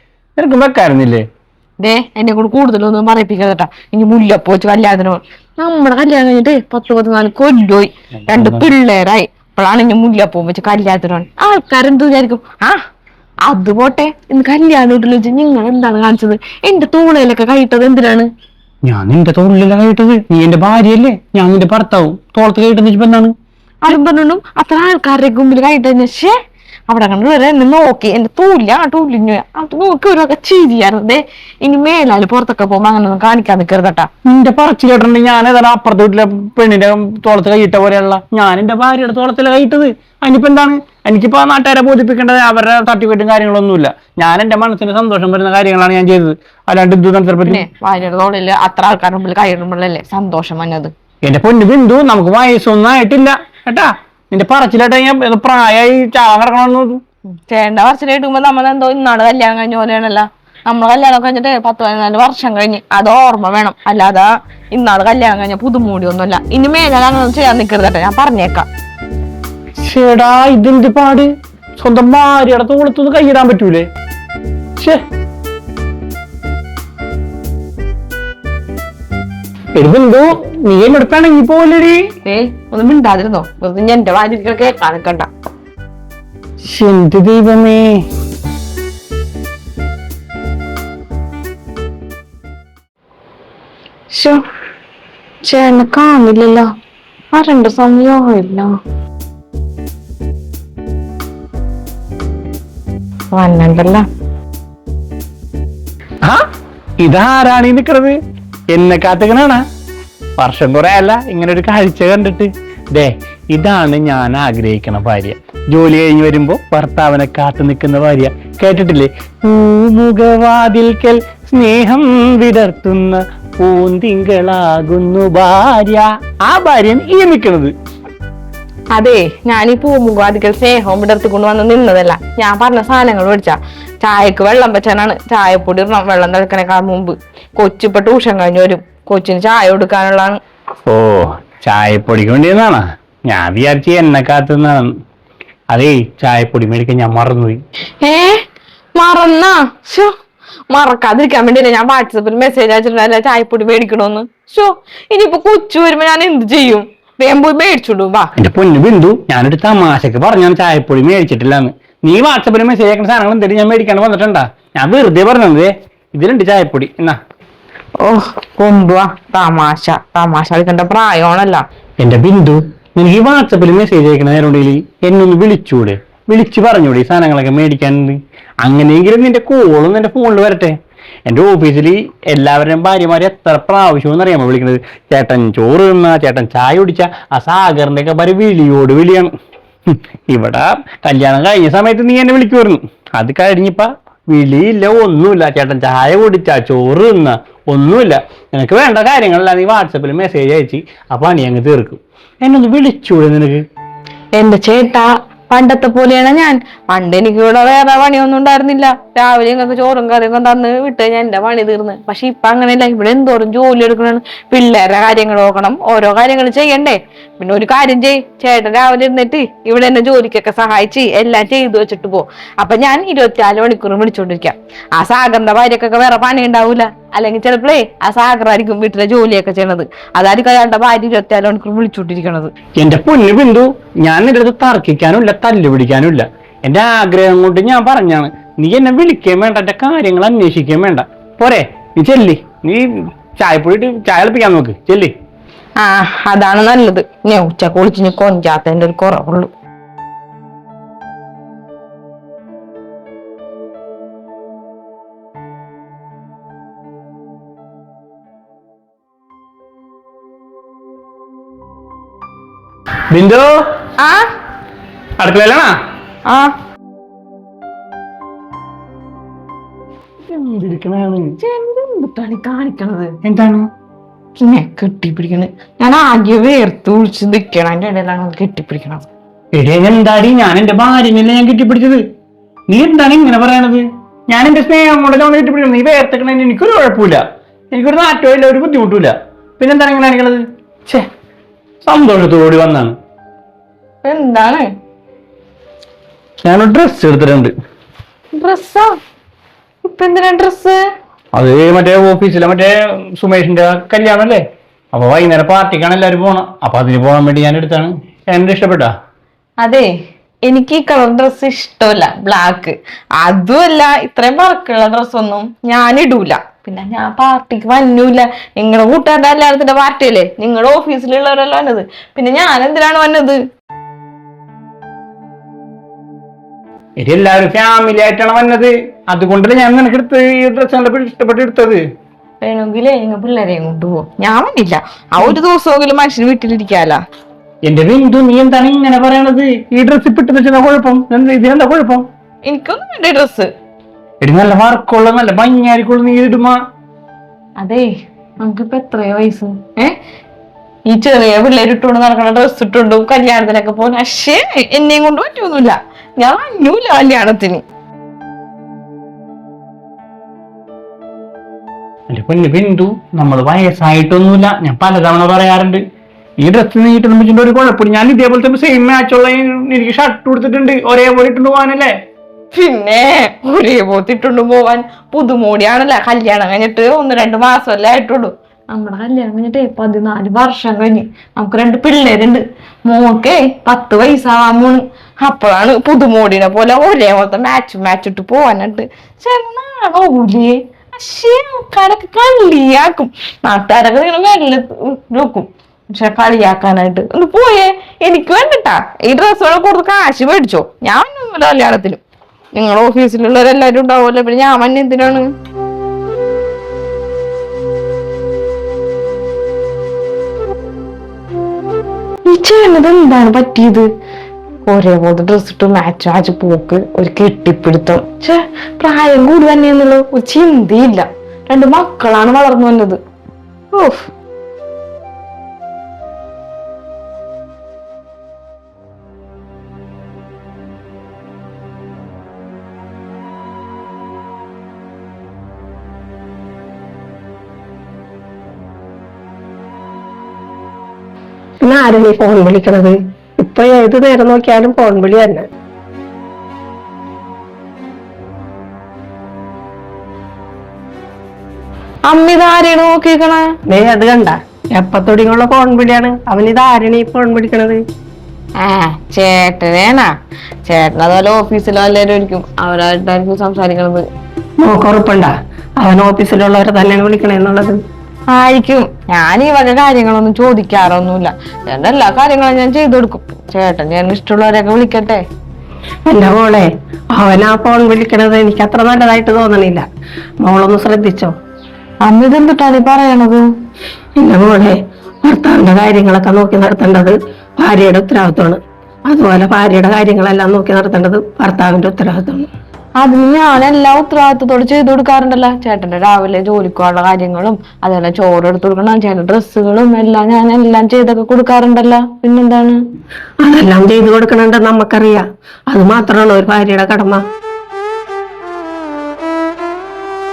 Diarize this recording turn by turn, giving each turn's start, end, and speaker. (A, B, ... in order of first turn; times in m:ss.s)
0:00.4-0:01.2 A
0:01.8-0:12.8 B
0:08.2-0:08.7 A
0:13.5-0:18.3 B
0:18.8-0:23.3 A
0:23.8-0:26.3 B
0:26.9-0:34.1 B
0:34.2-0:47.6 A
0:47.4-0:50.9 B
0:51.2-0:57.0 A
0:57.5-1:08.7 B
1:09.8-1:13.9 A
1:19.7-1:22.1 A
1:22.2-1:25.3 B
1:26.6-1:28.0 A
1:34.1-1:34.4 B
1:35.4-1:36.7 B
1:37.3-1:38.7 B
1:43.3-1:44.0 B
1:47.0-1:48.2 A
1:48.7-1:49.6 A
1:50.4-2:07.7 A
2:08.9-2:20.4 B
2:20.8-2:24.9 A
2:25.7-2:27.6 A
2:28.0-2:28.4 B
2:29.0-2:30.1 B
2:30.7-2:38.3 B
2:38.4-2:47.2 A
2:48.0-2:51.6 B
2:52.0-3:09.3 A
3:09.9-3:23.6 A
3:24.4-3:52.5 B
3:52.8-4:05.1 A
4:05.8-4:09.5 B
4:23.1-4:23.5 A
4:24.0-4:24.2 B
4:25.2-4:25.7 A
4:26.3-4:26.5 B
4:30.3-4:31.3 A
4:31.4-4:33.1 B
4:33.2-4:33.7 A
4:34.4-4:39.0 B
4:39.5-4:42.0 A
4:42.7-4:51.1 A
4:51.8-4:52.9 A
4:54.0-4:54.7 B
4:56.4-4:57.5 A
4:58.3-4:58.9 B
4:59.8-5:00.8 B
5:01.3-5:08.9 A
5:09.6-5:09.9 B
5:10.4-5:23.4 B
5:27.0-5:31.8 A
5:32.4-5:37.0 B
5:37.6-5:42.1 A
5:42.5-5:43.5 B
5:44.2-5:46.6 A
5:47.6-5:47.9 B
5:48.4-5:50.0 B
5:50.9-5:57.6 B
6:02.1-6:05.8 A
6:06.4-6:11.9 A
6:12.5-6:42.0 B
6:42.5-6:45.3 B
6:52.2-6:53.9 B
6:54.7-7:03.0 B
7:03.7-7:04.1 B
7:21.6-7:25.4 C
7:32.1-7:33.5 B
7:33.7-7:37.8 C
7:38.6-7:40.1 B
7:40.7-7:44.0 B
7:44.6-7:47.8 C
7:48.3-7:55.2 B
7:56.1-7:59.8 C
8:00.4-8:01.3 C
8:02.0-8:03.4 B
8:04.2-8:12.5 C
8:13.0-8:22.8 B
8:23.4-8:27.2 C